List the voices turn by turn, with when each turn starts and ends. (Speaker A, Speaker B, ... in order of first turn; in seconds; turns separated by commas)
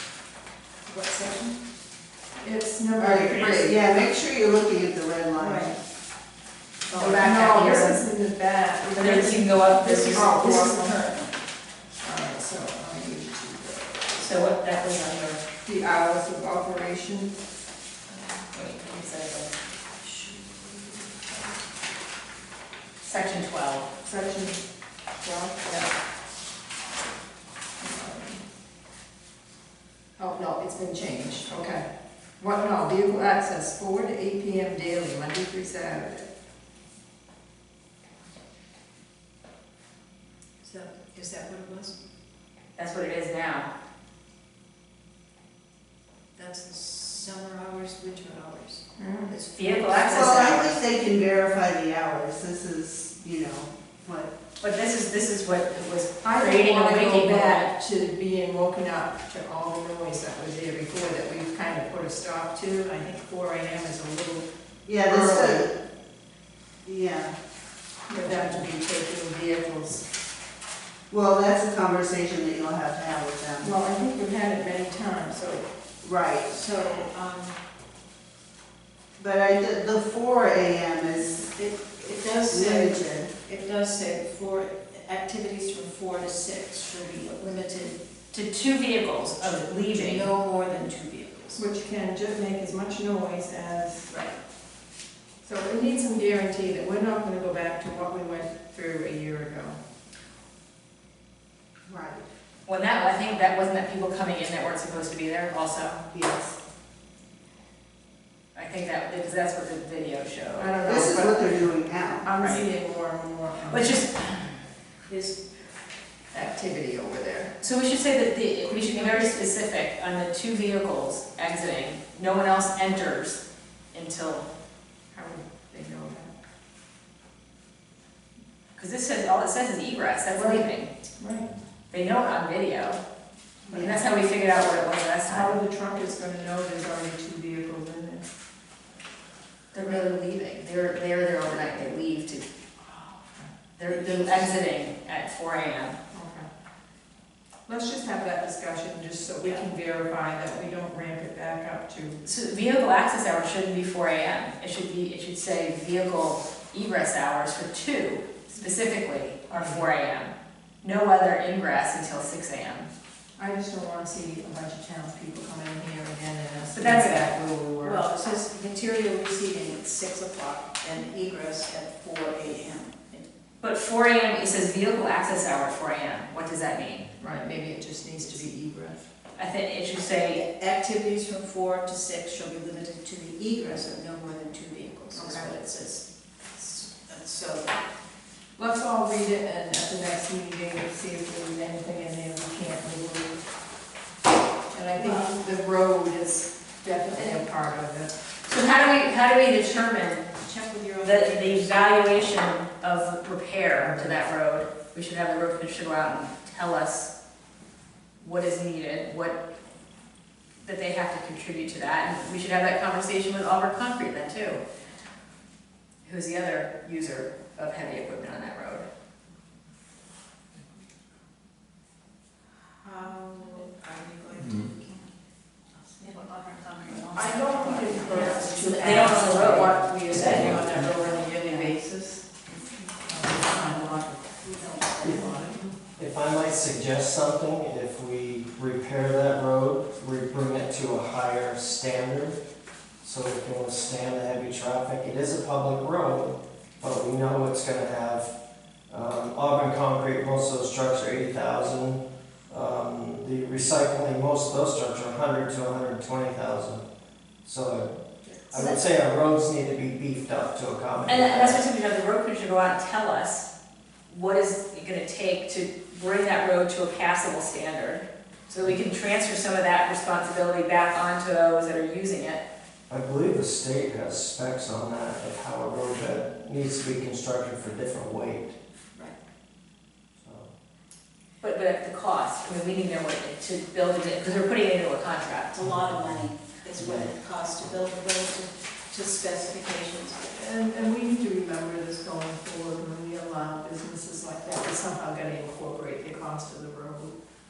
Speaker A: 0.8-1.6, Speaker B: 2.4-3.8, Speaker C: 3.0-5.7, Speaker B: 5.4-5.7, Speaker A: 6.9-7.2, Speaker B: 7.0-11.2, Speaker D: 7.0-8.0, Speaker D: 8.9-10.6, Speaker A: 10.0-11.3, Speaker B: 12.0-14.2, Speaker D: 14.2-15.4, Speaker B: 15.6-17.3, Speaker D: 18.5-19.6, Speaker A: 20.0-21.1, Speaker D: 23.0-23.9, Speaker B: 24.0-24.6, Speaker B: 25.2-25.9, Speaker B: 27.8-28.4, Speaker B: 30.2-31.9, Speaker B: 32.4-36.3, Speaker A: 40.6-41.9, Speaker D: 42.8-43.7, Speaker A: 46.4-50.4, Speaker B: 49.0-49.4, Speaker D: 49.5-50.7, Speaker C: 50.0-54.3, Speaker D: 54.6-57.7, Speaker B: 56.2-64.5, Speaker C: 64.8-65.7, Speaker B: 65.0-65.7, Speaker C: 66.8-67.3, Speaker B: 68.1-70.1, Speaker C: 71.1-73.7, Speaker B: 73.6-75.7, Speaker C: 76.0-76.5, Speaker A: 76.5-77.6, Speaker C: 79.2-81.5, Speaker A: 81.4-88.0, Speaker C: 82.5-83.3, Speaker D: 88.3-90.3, Speaker A: 89.9-91.6, Speaker B: 91.5-94.2, Speaker B: 95.4-99.8, Speaker C: 101.9-102.3, Speaker D: 102.7-106.0, Speaker C: 106.1-106.5, Speaker D: 108.5-110.7, Speaker B: 110.6-111.7, Speaker C: 110.8-112.2, Speaker B: 112.2-114.0, Speaker D: 112.4-112.7, Speaker D: 113.7-114.6, Speaker A: 115.1-115.4, Speaker B: 116.3-117.5, Speaker D: 117.6-123.4, Speaker A: 118.9-119.3, Speaker D: 123.9-124.5, Speaker B: 125.1-126.3, Speaker D: 128.8-130.9, Speaker B: 131.2-131.5, Speaker D: 131.9-133.0, Speaker D: 133.7-135.6, Speaker B: 135.2-138.2, Speaker D: 139.7-142.4, Speaker D: 143.8-146.0, Speaker B: 146.1-146.5, Speaker B: 147.7-152.2, Speaker D: 152.2-162.9, Speaker B: 159.5-159.9, Speaker B: 163.3-168.0, Speaker D: 166.7-167.2, Speaker A: 167.8-173.3, Speaker D: 173.6-177.1, Speaker B: 177.2-179.1, Speaker D: 179.3-180.4, Speaker A: 180.3-187.7, Speaker B: 185.1-185.6, Speaker B: 188.6-193.4, Speaker B: 194.7-198.1, Speaker A: 194.9-195.4, Speaker A: 197.1-197.4, Speaker D: 198.4-200.3, Speaker A: 200.3-201.9, Speaker D: 201.0-207.1, Speaker D: 208.2-209.4, Speaker D: 210.6-214.6, Speaker D: 216.0-218.8, Speaker A: 222.8-225.1, Speaker A: 225.8-235.7, Speaker B: 227.1-231.8, Speaker D: 228.8-230.5, Speaker B: 233.0-234.2, Speaker B: 235.1-235.5, Speaker E: 236.0-242.4, Speaker E: 243.0-248.3, Speaker E: 248.9-256.9, Speaker E: 257.4-261.6, Speaker D: 261.1-263.5, Speaker D: 264.1-272.4, Speaker E: 272.9-278.5, Speaker E: 280.2-280.5, Speaker D: 281.4-285.7, Speaker A: 285.5-290.2, Speaker E: 286.8-287.1, Speaker B: 290.3-297.1